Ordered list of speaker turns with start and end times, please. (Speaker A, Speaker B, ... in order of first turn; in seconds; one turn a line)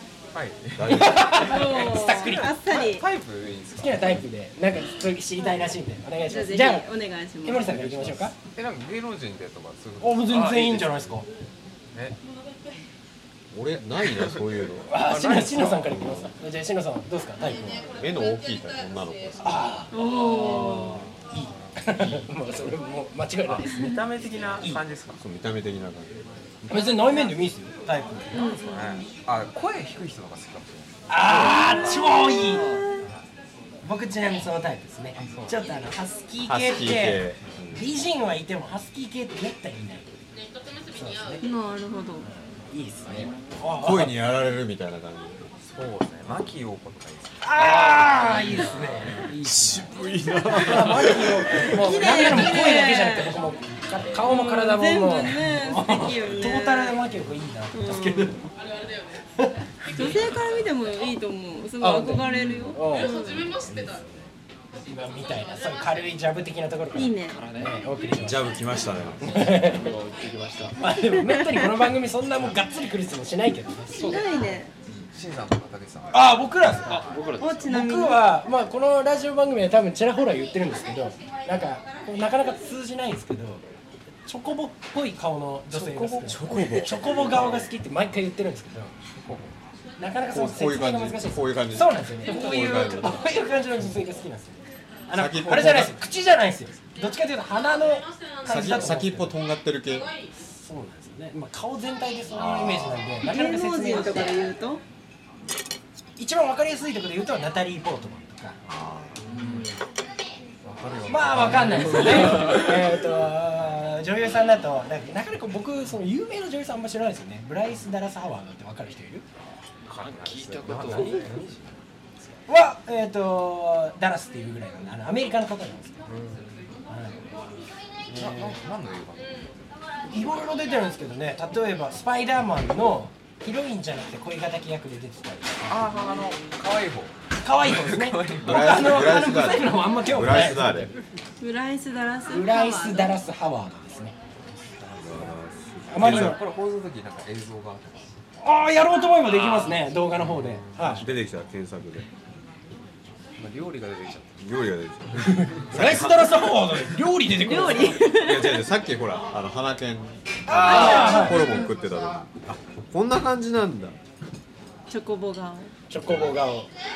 Speaker A: 0.3-4.2
Speaker B: 0.8-1.4
Speaker C: 0.9-2.5
Speaker D: 1.4-3.0
Speaker C: 3.8-6.9
Speaker D: 6.3-7.7
Speaker C: 7.4-8.3
Speaker A: 7.6-11.2
Speaker C: 10.0-11.3
Speaker E: 10.3-10.7
Speaker B: 13.5-15.0
Speaker A: 14.1-16.0
Speaker C: 14.8-17.9
Speaker B: 15.9-16.3
Speaker B: 17.9-19.6
Speaker C: 19.4-24.0
Speaker D: 19.9-21.1
Speaker A: 20.5-20.9
Speaker E: 20.5-20.8
Speaker A: 23.4-25.2
Speaker B: 25.2-26.1
Speaker C: 26.6-28.4
Speaker D: 26.7-27.2
Speaker D: 28.3-29.1
Speaker A: 28.4-31.1
Speaker C: 31.1-32.7
Speaker B: 31.2-31.5
Speaker E: 31.3-32.9
Speaker D: 32.5-33.0
Speaker C: 33.8-40.1
Speaker A: 35.2-35.6
Speaker B: 36.5-37.9
Speaker C: 40.9-41.4
Speaker D: 41.4-42.3
Speaker C: 42.7-44.2
Speaker B: 43.8-45.5
Speaker A: 45.6-49.3
Speaker C: 47.4-49.9
Speaker B: 49.4-51.8
Speaker C: 50.5-58.5
Speaker D: 51.7-53.3
Speaker D: 54.2-57.0
Speaker D: 57.7-58.3
Speaker D: 59.9-63.5
Speaker C: 61.8-63.1
Speaker E: 62.2-62.7
Speaker C: 63.6-64.0
Speaker C: 64.9-68.5
Speaker D: 66.9-67.4
Speaker E: 67.3-67.8
Speaker B: 68.2-69.5
Speaker C: 69.2-69.8
Speaker E: 69.5-70.8
Speaker C: 70.8-74.2
Speaker D: 71.2-71.7
Speaker E: 74.0-74.6
Speaker D: 74.0-74.7
Speaker A: 75.0-77.4
Speaker C: 76.1-77.0
Speaker E: 76.8-77.7
Speaker D: 77.4-78.3
Speaker C: 77.7-83.6
Speaker C: 84.2-88.9
Speaker B: 85.7-87.4
Speaker A: 87.4-87.6
Speaker A: 89.2-89.5
Speaker C: 90.0-99.3
Speaker B: 90.3-93.3
Speaker B: 95.1-96.0
Speaker B: 98.4-100.1
Speaker C: 100.4-104.4
Speaker B: 102.3-103.2
Speaker D: 103.2-104.8
Speaker C: 106.2-108.6
Speaker B: 108.7-109.2
Speaker A: 109.3-109.8
Speaker E: 109.3-109.6
Speaker A: 110.6-112.7
Speaker C: 111.1-119.2
Speaker E: 119.8-121.2
Speaker A: 119.8-121.8
Speaker C: 122.5-126.0
Speaker A: 126.1-126.5
Speaker C: 126.9-127.2
Speaker A: 128.1-129.5
Speaker C: 128.1-128.6
Speaker C: 130.1-135.9
Speaker A: 135.7-139.3
Speaker C: 137.4-140.9
Speaker B: 138.4-140.9
Speaker D: 141.4-143.2
Speaker C: 142.3-144.1
Speaker A: 144.8-145.3
Speaker B: 144.9-146.4
Speaker C: 145.9-146.4
Speaker A: 145.9-148.2
Speaker C: 148.4-151.1
Speaker A: 149.2-151.2
Speaker B: 150.9-152.1
Speaker A: 153.4-154.5
Speaker B: 154.4-156.7
Speaker C: 155.2-158.0
Speaker D: 157.4-158.7
Speaker B: 158.0-164.0
Speaker C: 160.5-161.5
Speaker A: 160.6-161.0
Speaker D: 160.7-161.7
Speaker D: 164.9-165.7
Speaker C: 165.9-166.7
Speaker B: 166.0-166.3